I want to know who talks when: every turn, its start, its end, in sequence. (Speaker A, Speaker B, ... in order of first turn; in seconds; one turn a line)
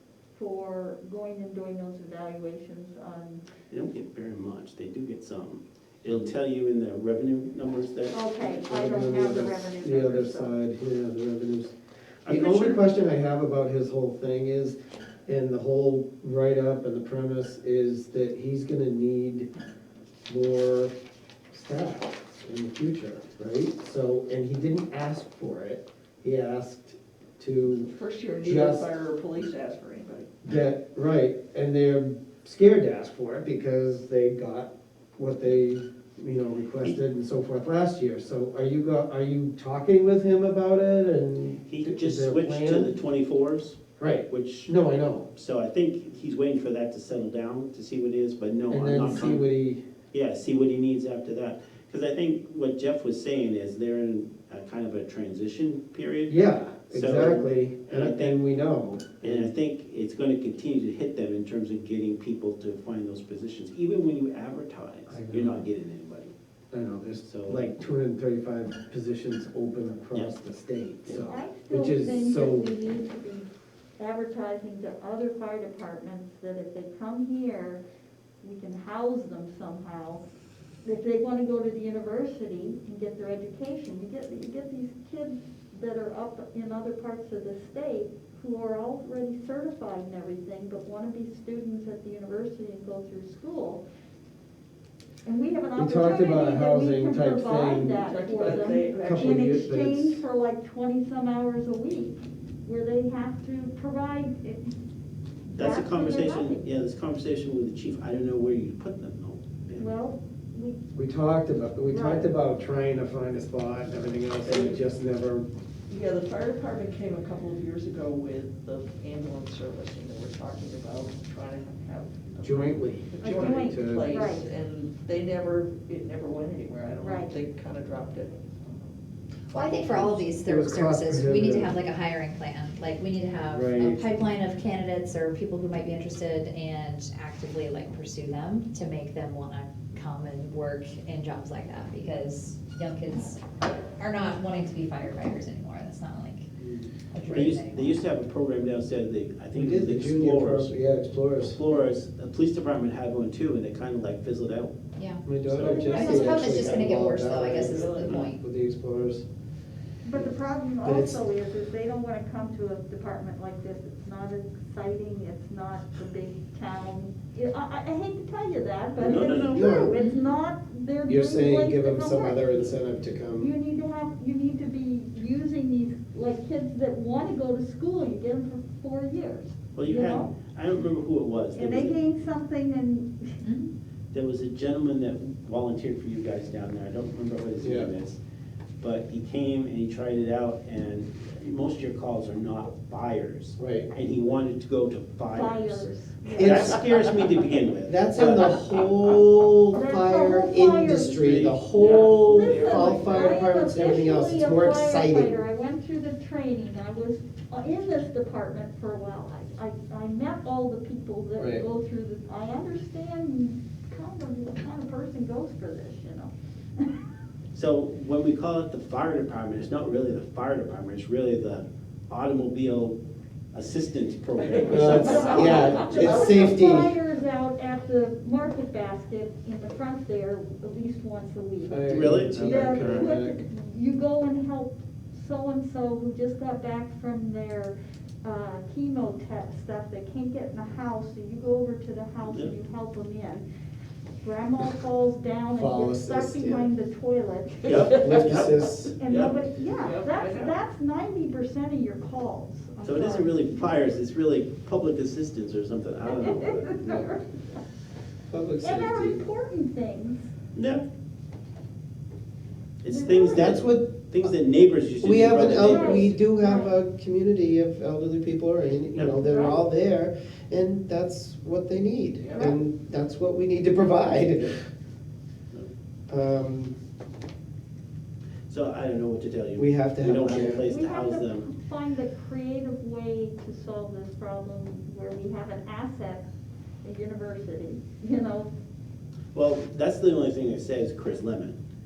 Speaker A: 0.3-3.4
Speaker B: 3.7-8.6
Speaker A: 8.1-10.5
Speaker C: 8.6-11.7
Speaker B: 12.2-12.8
Speaker C: 12.2-19.5
Speaker C: 20.3-20.9
Speaker C: 21.5-27.9
Speaker D: 27.7-30.3
Speaker C: 28.4-28.9
Speaker C: 30.4-42.9
Speaker B: 41.7-44.8
Speaker C: 44.0-45.3
Speaker B: 45.3-49.4
Speaker C: 48.7-49.8
Speaker B: 50.1-56.4
Speaker C: 56.3-59.5
Speaker B: 56.9-58.4
Speaker B: 59.2-66.3
Speaker C: 65.1-65.7
Speaker C: 66.7-72.7
Speaker B: 67.2-67.7
Speaker A: 71.1-77.8
Speaker A: 78.4-80.2
Speaker A: 80.8-93.8
Speaker A: 95.2-104.6
Speaker C: 95.8-100.2
Speaker D: 98.0-99.7
Speaker A: 105.5-106.6
Speaker B: 105.5-109.9
Speaker A: 109.7-110.8
Speaker C: 110.9-115.5
Speaker A: 111.9-112.3
Speaker D: 114.5-114.8
Speaker D: 115.9-129.0
Speaker C: 122.4-124.2
Speaker A: 123.2-124.5
Speaker A: 127.0-127.3
Speaker E: 129.5-143.4
Speaker C: 129.9-131.7
Speaker C: 133.5-134.0
Speaker E: 144.0-146.5
Speaker B: 146.6-150.8
Speaker E: 147.1-148.0
Speaker C: 149.5-151.6
Speaker B: 151.5-154.7
Speaker E: 155.0-158.4
Speaker C: 155.2-159.2
Speaker B: 155.5-156.5
Speaker A: 155.6-156.4
Speaker D: 156.6-158.2
Speaker A: 160.0-172.6
Speaker C: 160.8-161.2
Speaker B: 169.0-169.8
Speaker C: 169.0-169.9
Speaker C: 171.1-173.5
Speaker A: 173.4-180.3
Speaker B: 179.7-182.0
Speaker A: 181.5-183.4
Speaker E: 183.4-183.7
Speaker B: 184.1-188.2
Speaker C: 187.6-187.9
Speaker B: 188.8-199.1
Speaker C: 193.6-193.9
Speaker A: 195.3-196.8
Speaker C: 196.3-196.8
Speaker C: 197.8-205.4
Speaker A: 199.7-201.1
Speaker B: 200.8-201.9
Speaker D: 201.8-203.3
Speaker A: 202.2-216.9
Speaker C: 211.4-211.6
Speaker B: 217.5-223.0
Speaker B: 223.5-226.3
Speaker D: 224.4-226.5
Speaker A: 224.7-243.4
Speaker C: 224.7-226.9
Speaker C: 231.6-233.4
Speaker B: 231.9-233.2
Speaker B: 242.2-242.6
Speaker A: 244.2-247.8
Speaker C: 245.6-246.7
Speaker B: 247.7-249.4
Speaker C: 247.9-248.9
Speaker A: 249.0-253.6
Speaker D: 249.8-250.5
Speaker B: 252.8-257.1
Speaker A: 256.0-257.3
Speaker C: 258.3-259.2
Speaker A: 258.6-260.3
Speaker B: 260.5-260.9
Speaker B: 262.8-266.1
Speaker A: 262.9-263.5
Speaker C: 263.3-264.3
Speaker C: 265.0-274.7
Speaker A: 265.4-266.7
Speaker A: 269.1-269.6
Speaker D: 272.2-272.6
Speaker C: 276.1-276.7
Speaker B: 278.5-281.5
Speaker C: 279.6-280.7
Speaker A: 280.4-286.2
Speaker A: 286.8-288.5
Speaker B: 289.3-291.6